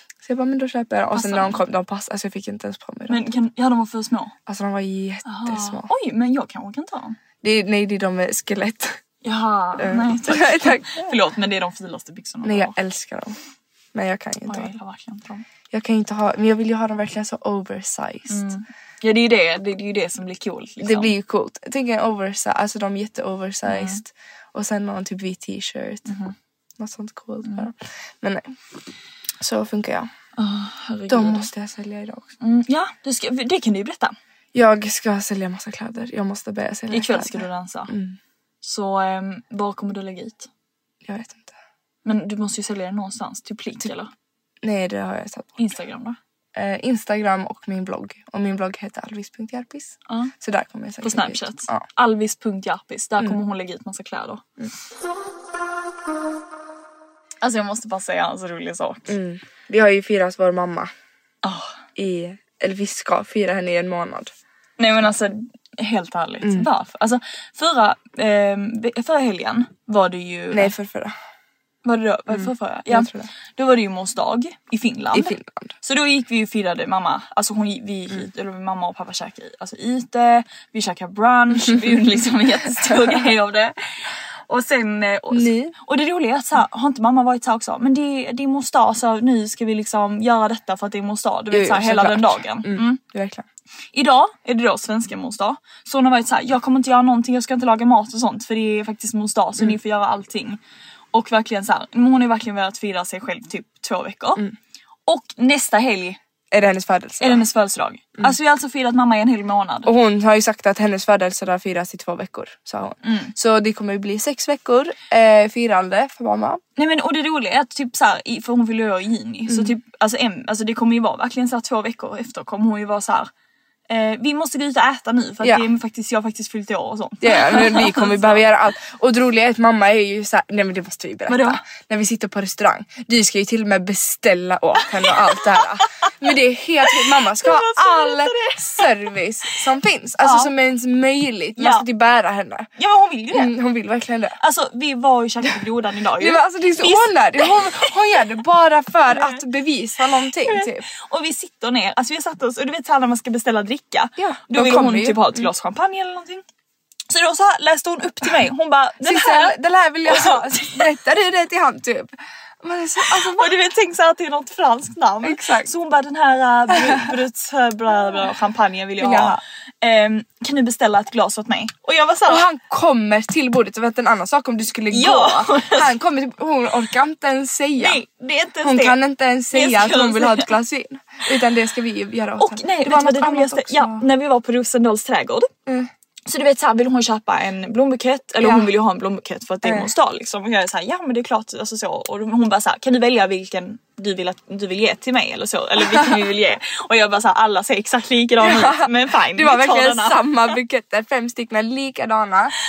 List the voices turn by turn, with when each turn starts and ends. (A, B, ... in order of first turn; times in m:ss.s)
0:00.2-0:03.3 A
0:01.1-0:01.6 B
0:03.1-0:04.3 B
0:04.5-0:05.9 A
0:05.2-0:07.2 B
0:07.4-0:09.0 A
0:09.2-0:12.7 B
0:09.8-0:11.2 A
0:12.4-0:13.4 A
0:13.9-0:14.7 A
0:14.5-0:15.4 B
0:15.7-0:18.5 A
0:18.3-0:21.1 B
0:20.8-0:26.1 A
0:23.7-0:24.0 B
0:26.1-0:26.3 B
0:26.8-0:28.5 A
0:29.4-0:30.1 A
0:30.4-0:31.5 B
0:31.1-0:32.3 A
0:32.4-0:34.1 B
0:34.5-0:38.2 A
0:36.9-0:37.9 B
0:38.6-0:40.5 B
0:41.0-0:41.5 A
0:42.0-0:44.1 B
0:44.6-0:45.6 A
0:45.6-0:46.2 B
0:46.5-0:51.8 A
0:50.1-0:50.3 B
0:51.0-0:54.4 B
0:57.4-0:59.2 B
0:59.1-1:00.9 A
1:01.4-1:01.7 B
1:02.0-1:04.3 A
1:04.8-1:10.7 B
1:06.4-1:06.7 A
1:10.5-1:11.1 A
1:11.8-1:23.8 B
1:12.3-1:13.3 A
1:15.1-1:15.7 A
1:22.9-1:23.2 A
1:24.5-1:33.0 B
1:25.3-1:25.7 A
1:31.5-1:33.4 A
1:33.9-1:40.6 B
1:41.1-1:44.4 B
1:45.1-1:46.2 B
1:46.5-1:47.4 A
1:47.2-1:49.9 B
1:49.8-1:56.6 A
1:53.0-1:53.3 B
1:56.8-2:03.3 B
1:59.5-1:59.7 A
2:03.9-2:08.4 B
2:07.2-2:22.7 A
2:11.3-2:11.6 B
2:17.1-2:19.0 B
2:20.2-2:20.5 B
2:21.6-2:21.8 B
2:22.8-2:23.5 B
2:23.3-2:24.3 A
2:24.4-2:27.9 B
2:26.2-2:30.8 A
2:29.1-2:29.4 B
2:30.4-2:36.4 B
2:34.2-2:35.5 A
2:37.1-2:40.8 B
2:39.0-2:43.5 A
2:43.1-2:52.4 B
2:45.2-2:45.7 A
2:46.7-2:47.1 A
2:49.0-2:49.4 A
2:52.3-2:58.0 A
2:54.9-2:55.9 B
2:57.8-2:59.0 B
2:58.6-3:04.0 A
2:59.5-3:00.5 B
3:02.4-3:05.5 B
3:06.2-3:20.4 B
3:08.4-3:08.7 A
3:09.6-3:09.9 A
3:18.4-3:22.5 A